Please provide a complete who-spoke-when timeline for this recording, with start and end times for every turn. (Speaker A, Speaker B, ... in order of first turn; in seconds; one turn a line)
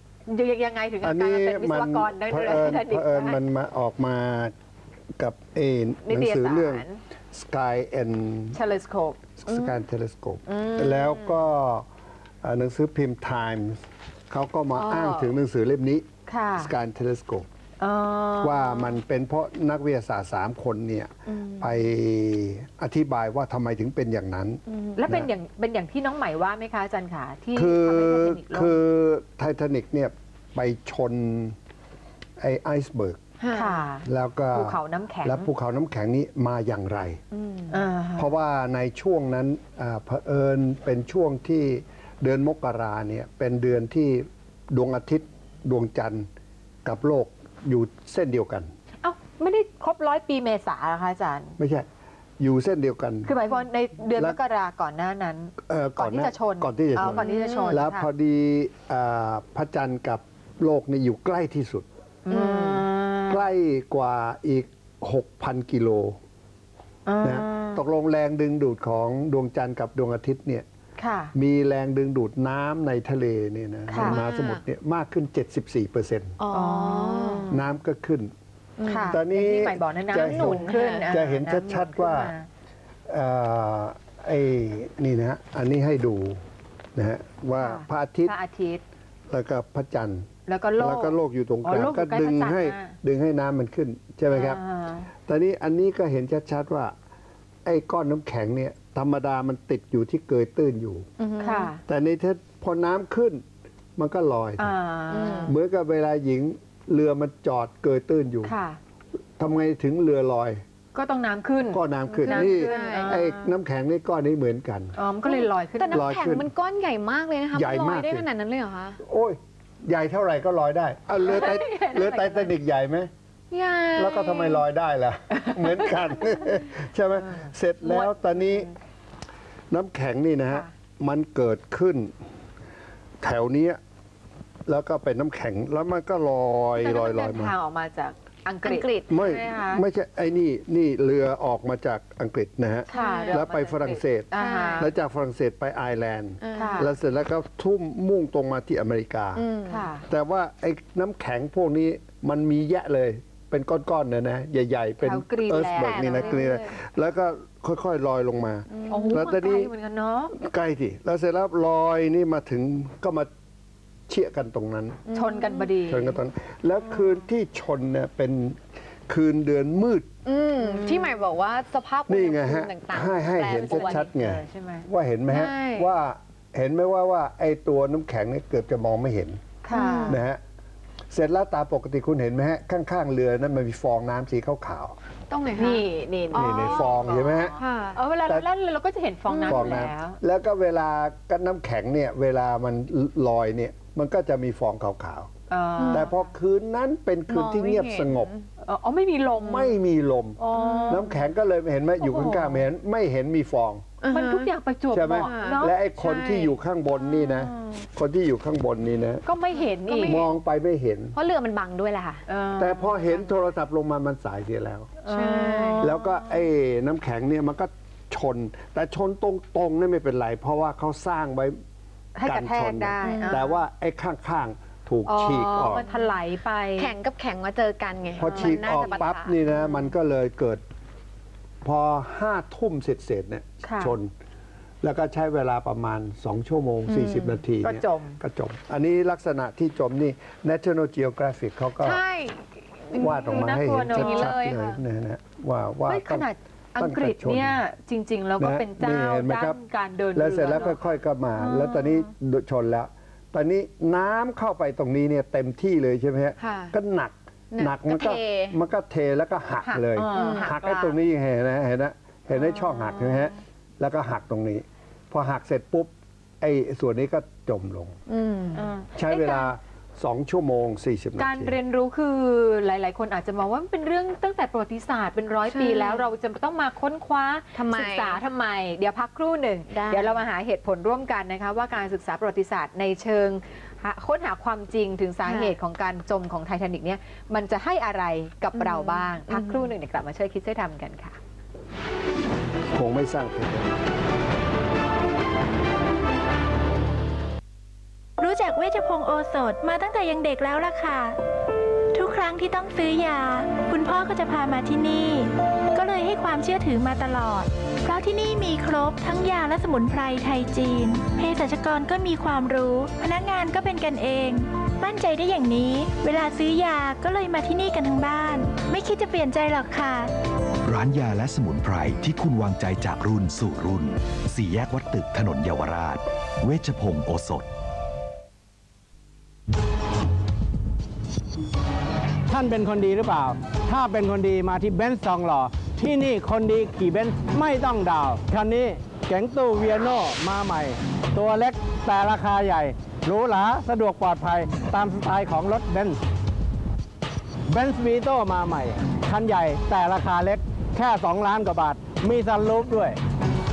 Speaker A: 0.3-3.4
Speaker B: 1.0-4.5
Speaker B: 5.2-8.6
Speaker A: 6.0-7.0
Speaker A: 8.5-9.8
Speaker B: 9.4-11.9
Speaker A: 10.5-11.4
Speaker B: 12.4-16.1
Speaker A: 14.8-15.3
Speaker A: 16.3-16.7
Speaker B: 16.6-17.5
Speaker A: 17.8-19.0
Speaker B: 18.4-25.3
Speaker C: 21.3-21.6
Speaker C: 24.7-25.0
Speaker A: 24.9-28.8
Speaker B: 27.5-31.6
Speaker B: 32.4-33.2
Speaker C: 33.4-33.9
Speaker A: 33.5-35.5
Speaker B: 34.0-37.2
Speaker C: 37.3-37.8
Speaker A: 37.7-38.3
Speaker B: 38.2-46.3
Speaker B: 46.8-48.7
Speaker A: 49.0-51.5
Speaker B: 51.6-51.9
Speaker B: 52.4-53.4
Speaker A: 53.2-58.1
Speaker B: 55.6-61.9
Speaker C: 57.0-57.8
Speaker A: 62.2-63.5
Speaker C: 62.3-62.8
Speaker B: 63.3-66.2
Speaker A: 67.0-67.8
Speaker B: 67.2-70.7
Speaker A: 71.0-71.3
Speaker B: 71.3-76.4
Speaker A: 73.9-74.2
Speaker C: 73.9-74.6
Speaker C: 76.4-77.5
Speaker A: 76.5-77.6
Speaker B: 77.5-78.3
Speaker C: 78.8-79.2
Speaker A: 78.8-82.5
Speaker B: 79.1-82.3
Speaker C: 80.1-81.2
Speaker B: 83.1-86.4
Speaker B: 86.9-88.3
Speaker A: 87.5-88.8
Speaker B: 89.3-94.6
Speaker A: 90.5-92.9
Speaker A: 94.3-95.1
Speaker B: 95.2-96.9
Speaker B: 97.6-101.1
Speaker C: 101.2-101.7
Speaker A: 101.4-101.8
Speaker B: 101.9-103.4
Speaker B: 104.0-104.7
Speaker A: 104.6-105.5
Speaker C: 105.1-105.5
Speaker B: 105.5-108.5
Speaker A: 108.4-108.8
Speaker B: 109.4-110.6
Speaker A: 110.9-113.5
Speaker B: 111.7-115.0
Speaker C: 112.1-113.2
Speaker A: 115.0-116.1
Speaker C: 115.2-119.0
Speaker B: 115.9-116.5
Speaker B: 117.5-118.3
Speaker B: 119.0-123.1
Speaker A: 121.2-122.5
Speaker C: 123.5-124.6
Speaker B: 124.0-128.7
Speaker A: 125.4-125.8
Speaker A: 127.3-128.7
Speaker B: 129.7-132.1
Speaker B: 133.2-133.8
Speaker B: 134.7-137.5
Speaker A: 136.8-139.8
Speaker C: 138.6-139.3
Speaker B: 139.1-149.5
Speaker A: 142.9-144.9
Speaker C: 142.9-143.4
Speaker C: 144.3-144.9
Speaker C: 146.4-146.9
Speaker A: 146.6-146.9
Speaker C: 149.3-149.9
Speaker A: 149.7-150.1
Speaker B: 150.1-159.7
Speaker A: 155.0-156.5
Speaker C: 155.8-156.7
Speaker C: 158.7-159.2
Speaker A: 158.9-160.3
Speaker B: 160.3-163.3
Speaker B: 164.1-165.0
Speaker C: 165.1-165.7
Speaker A: 165.1-166.2
Speaker B: 165.8-170.1
Speaker C: 170.2-174.1
Speaker A: 170.6-171.1
Speaker B: 172.1-179.4
Speaker A: 173.5-174.8
Speaker C: 175.3-175.9
Speaker A: 179.6-180.2
Speaker C: 179.7-180.2
Speaker B: 180.0-180.4
Speaker B: 181.1-184.9
Speaker C: 185.3-188.0
Speaker A: 185.6-190.2
Speaker B: 186.3-187.6
Speaker C: 189.3-189.9
Speaker B: 189.4-195.3
Speaker A: 195.5-196.2
Speaker C: 195.8-196.1
Speaker B: 195.9-198.3
Speaker C: 197.3-198.4
Speaker A: 198.6-199.8
Speaker B: 199.4-203.9
Speaker A: 200.4-201.1
Speaker C: 200.5-201.1
Speaker A: 202.0-202.6
Speaker C: 204.0-206.5
Speaker A: 204.1-206.5
Speaker B: 204.9-209.2
Speaker A: 209.2-210.3
Speaker C: 209.5-210.3
Speaker B: 210.0-211.1
Speaker C: 211.1-212.2
Speaker A: 212.3-213.1
Speaker B: 212.6-214.9
Speaker A: 215.0-216.4
Speaker C: 215.1-215.8
Speaker B: 215.8-221.6
Speaker A: 222.1-223.6
Speaker B: 222.2-225.8
Speaker C: 223.0-223.4
Speaker A: 225.1-226.9
Speaker C: 225.8-226.1
Speaker C: 226.8-229.3
Speaker B: 228.2-230.6
Speaker A: 228.2-229.0
Speaker B: 231.6-234.1
Speaker A: 233.6-233.9
Speaker B: 234.8-242.0
Speaker C: 236.9-237.3
Speaker A: 237.6-238.2
Speaker A: 241.8-244.5
Speaker B: 242.9-247.6
Speaker C: 243.9-244.8
Speaker A: 245.9-250.9
Speaker B: 248.4-249.6
Speaker B: 250.1-268.0
Speaker A: 251.4-251.9
Speaker C: 256.4-256.7
Speaker C: 257.5-258.6
Speaker C: 259.6-260.9
Speaker A: 259.9-260.6
Speaker C: 262.5-262.9
Speaker C: 268.1-268.7
Speaker A: 268.5-269.5
Speaker B: 268.9-271.6
Speaker A: 271.2-291.2
Speaker C: 275.4-276.1
Speaker C: 277.5-278.2
Speaker C: 279.7-280.2
Speaker C: 285.2-285.5
Speaker C: 288.5-289.7
Speaker B: 292.7-293.7
Speaker D: 298.2-301.2
Speaker D: 301.9-320.1
Speaker E: 320.6-327.5
Speaker F: 332.3-346.0
Speaker F: 347.5-353.0